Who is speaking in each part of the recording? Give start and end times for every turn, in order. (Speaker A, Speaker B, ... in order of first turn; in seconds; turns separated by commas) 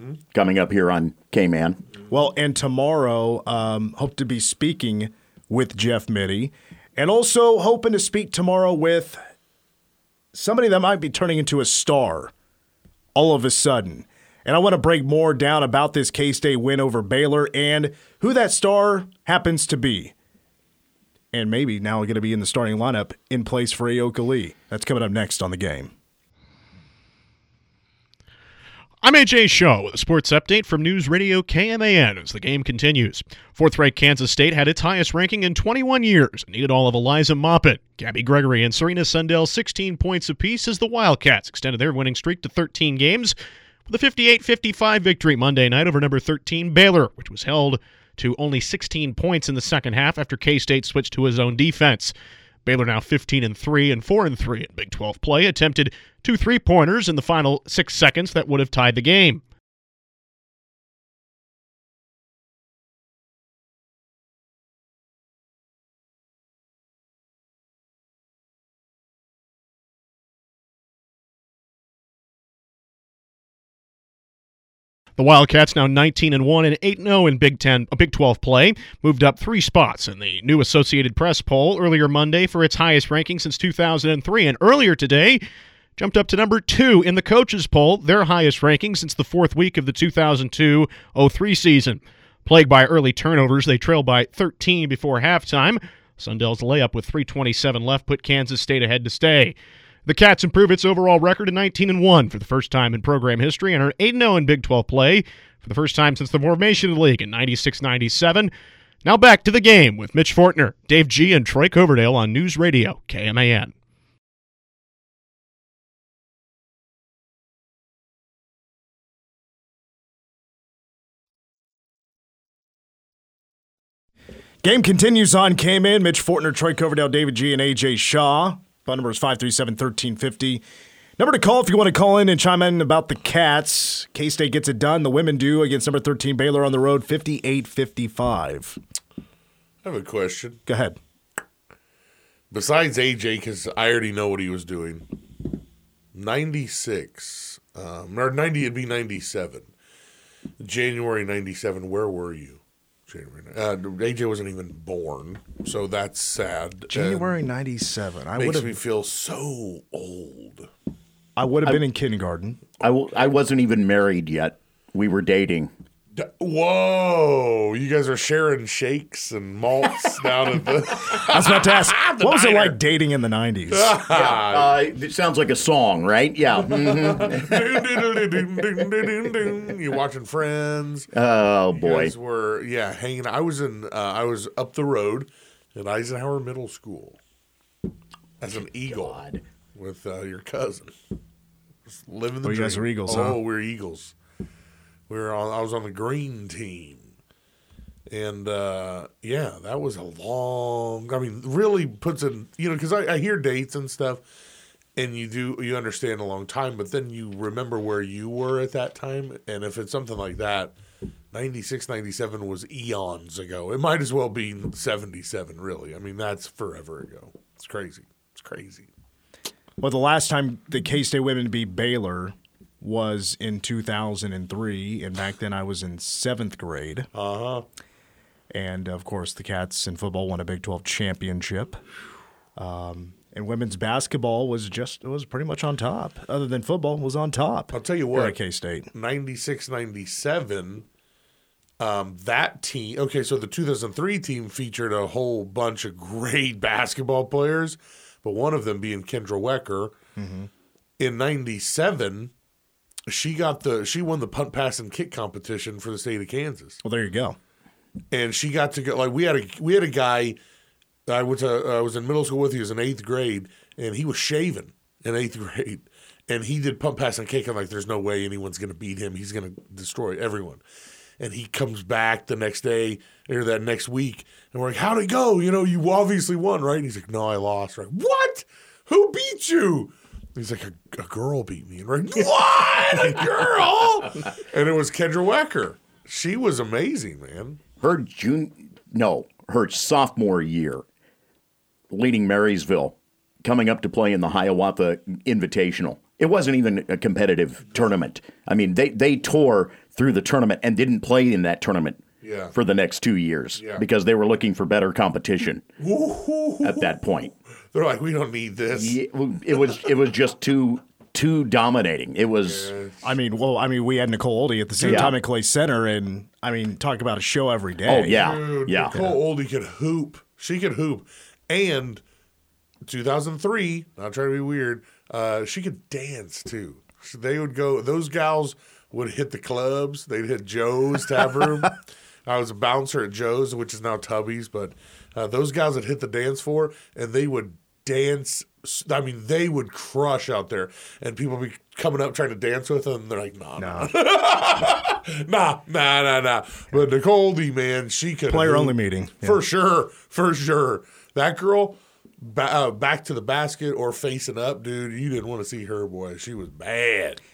Speaker A: 0.3-1.8, Speaker B: 2.1-9.2, Speaker B: 10.3-12.3, Speaker B: 13.1-20.1, Speaker B: 21.3-25.9, Speaker C: 29.0-43.3, Speaker C: 43.9-52.1, Speaker C: 52.6-59.4, Speaker C: 75.2-85.4, Speaker C: 86.0-108.5, Speaker C: 109.0-113.7, Speaker B: 124.6-130.6, Speaker B: 131.2-138.8, Speaker D: 139.8-140.6, Speaker B: 140.7-141.0, Speaker D: 142.5-145.1, Speaker D: 146.1-149.7, Speaker D: 150.6-157.3, Speaker B: 156.9-158.7, Speaker D: 158.4-160.7, Speaker B: 161.4-162.6, Speaker A: 162.8-165.7, Speaker D: 166.2-172.7, Speaker B: 171.2-173.9, Speaker D: 173.7-174.8, Speaker A: 174.0-179.5, Speaker D: 176.6-181.1, Speaker A: 181.1-182.1, Speaker D: 181.7-187.2, Speaker D: 188.4-189.2, Speaker A: 188.6-189.4, Speaker D: 189.7-190.9, Speaker D: 191.9-194.1, Speaker B: 192.4-193.4, Speaker D: 195.1-197.1, Speaker D: 198.1-204.2, Speaker D: 204.9-210.8, Speaker D: 211.3-218.9, Speaker B: 219.8-227.1, Speaker D: 227.1-227.6, Speaker B: 228.5-231.8, Speaker B: 232.6-238.9, Speaker D: 237.7-238.3, Speaker D: 238.9-240.8, Speaker D: 241.8-249.9, Speaker B: 250.2-250.5, Speaker D: 251.0-252.3, Speaker D: 253.1-256.8, Speaker B: 256.8-257.4, Speaker D: 258.1-260.4, Speaker D: 261.1-270.6, Speaker D: 271.2-287.6, Speaker A: 287.8-290.8, Speaker A: 291.9-305.6, Speaker D: 302.2-302.5, Speaker D: 303.6-303.8, Speaker D: 305.8-306.9, Speaker A: 306.6-307.3, Speaker D: 307.7-309.8, Speaker A: 308.7-312.7, Speaker D: 312.4-313.0, Speaker B: 313.0-318.2, Speaker D: 314.8-315.1, Speaker A: 314.8-315.1, Speaker A: 317.8-319.2, Speaker D: 318.1-322.0, Speaker D: 322.9-357.2, Speaker B: 343.6-343.9, Speaker B: 348.3-349.4